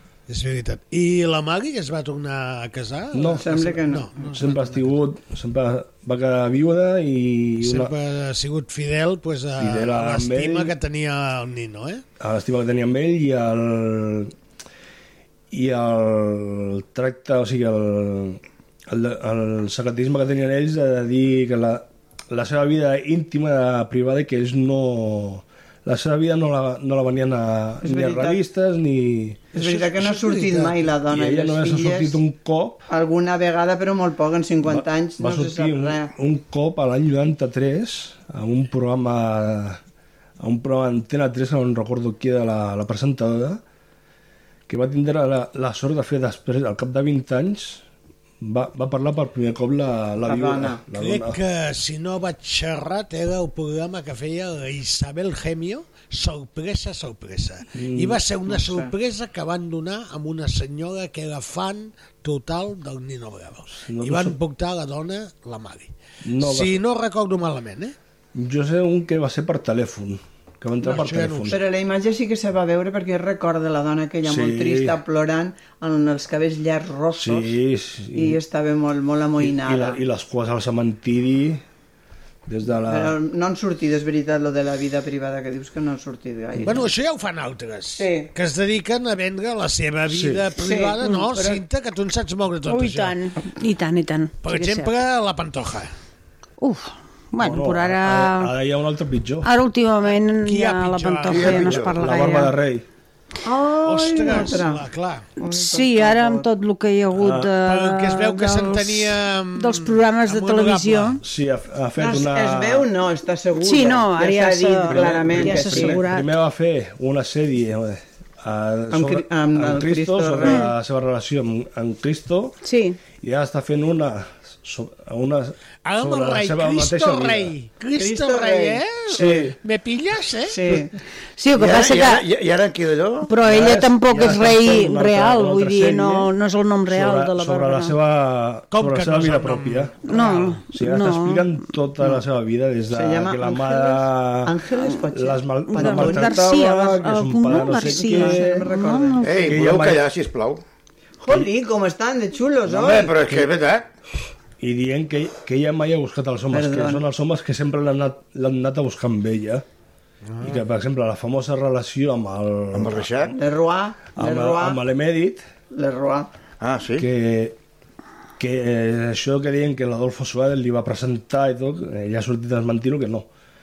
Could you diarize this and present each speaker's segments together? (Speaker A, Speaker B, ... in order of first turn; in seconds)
Speaker A: 0.3-4.8, 7.6-12.0, 29.5-30.7, 50.9-67.9, 70.8-71.6, 86.6-93.2, 94.4-95.9, 100.4-101.8, 103.8-105.2, 107.6-111.2, 125.8-130.8, 138.7-140.6, 160.3-160.6
Speaker B: 3.1-3.5, 4.3-7.9, 9.6-10.7, 12.2-14.3, 15.5-29.5, 31.1-32.9, 34.6-39.8, 40.4-43.6, 44.7-47.8, 48.4-51.4, 57.7-58.2, 63.7-64.3, 66.2-66.8, 68.3-71.6, 74.2-75.0, 77.1-78.4, 79.4-81.6, 82.5-83.2, 90.1-90.5, 97.4-99.5, 101.9-102.8, 107.2-107.5, 111.2-112.9, 114.9-122.6, 123.1-127.5, 129.1-129.6, 133.4-136.3, 136.9-140.1, 140.7-144.6, 145.1-148.6, 149.5-150.1, 154.6-159.6, 160.4-163.2, 164.1-165.4, 167.0-167.6, 168.4-173.2
Speaker C: 3.4-4.4, 27.8-28.4, 29.5-32.2, 32.9-36.1, 50.2-50.8, 58.5-58.9, 71.5-77.5, 78.1-80.0, 82.7-86.9, 88.0-88.3, 90.5-91.6, 103.4-106.5, 112.0-116.0, 118.9-120.7, 128.0-129.4, 130.4-130.9, 142.9-146.9, 147.5-149.3, 151.2-153.2, 156.5-157.0, 163.3-164.8, 165.7-166.3
Speaker D: 91.0-91.3, 92.7-94.9, 96.6-98.5, 99.4-102.5, 105.5-111.2, 113.5-116.3, 120.4-120.7, 122.6-123.0, 131.4-132.2, 133.2-137.9, 140.0-141.5, 145.7-149.7
Speaker E: 101.2-102.0, 131.5-133.4, 149.2-150.6, 152.7-153.9, 162.7-163.3, 166.6-167.1